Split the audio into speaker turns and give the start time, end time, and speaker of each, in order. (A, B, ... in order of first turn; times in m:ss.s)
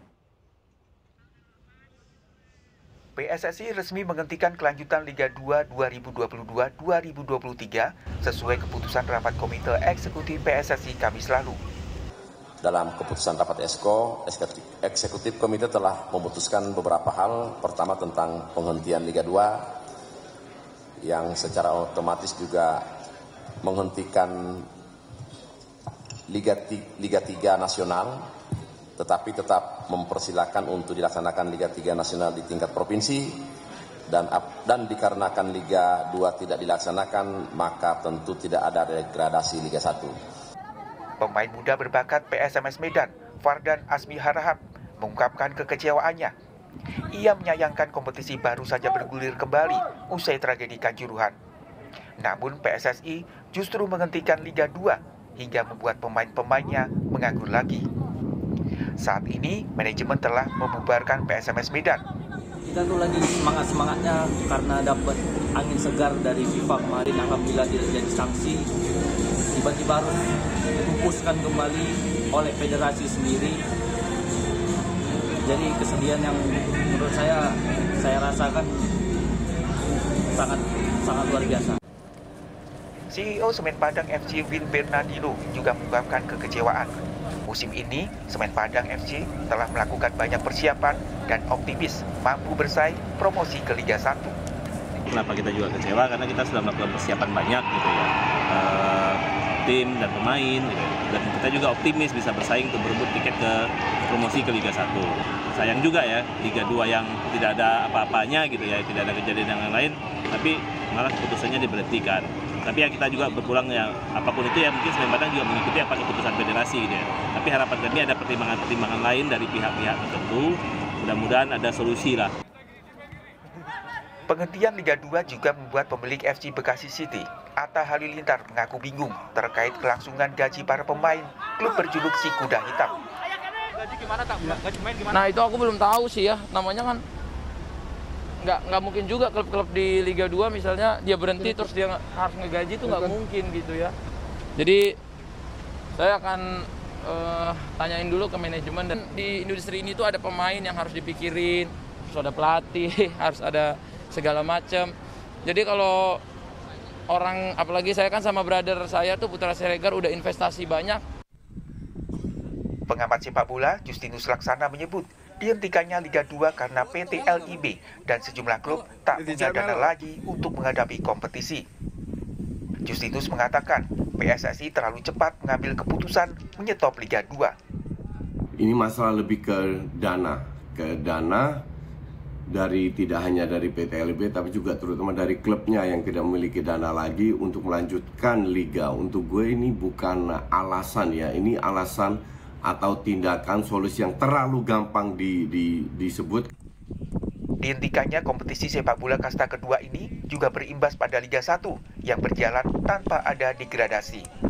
0:03.2-0:11.6 A
0:12.6-0:19.8 B
0:21.0-0:22.9 B
0:23.6-0:24.7 B
0:26.3-0:28.3 B
0:29.0-0:33.5 B
0:34.1-0:40.2 B
0:41.2-0:46.3 A
0:47.1-0:51.4 A
0:52.2-0:57.8 A
0:59.0-1:02.0 A
1:02.7-1:08.7 C
1:09.6-1:10.2 C
1:10.8-1:13.6 C
1:15.5-1:18.8 C
1:20.4-1:21.8 C
1:23.1-1:26.9 A
1:27.5-1:34.4 A
1:35.1-2:02.3 D
2:04.3-2:13.0 A
2:15.1-2:17.0 E
2:18.4-2:23.9 E
2:24.6-2:25.0 E
2:26.0-2:34.9 E
2:35.4-2:36.2 E
2:37.1-2:41.0 E
2:42.9-2:51.6 A
2:52.8-2:57.5 A
2:58.6-3:01.6 F
3:02.5-3:16.5 F
3:17.6-3:24.3 A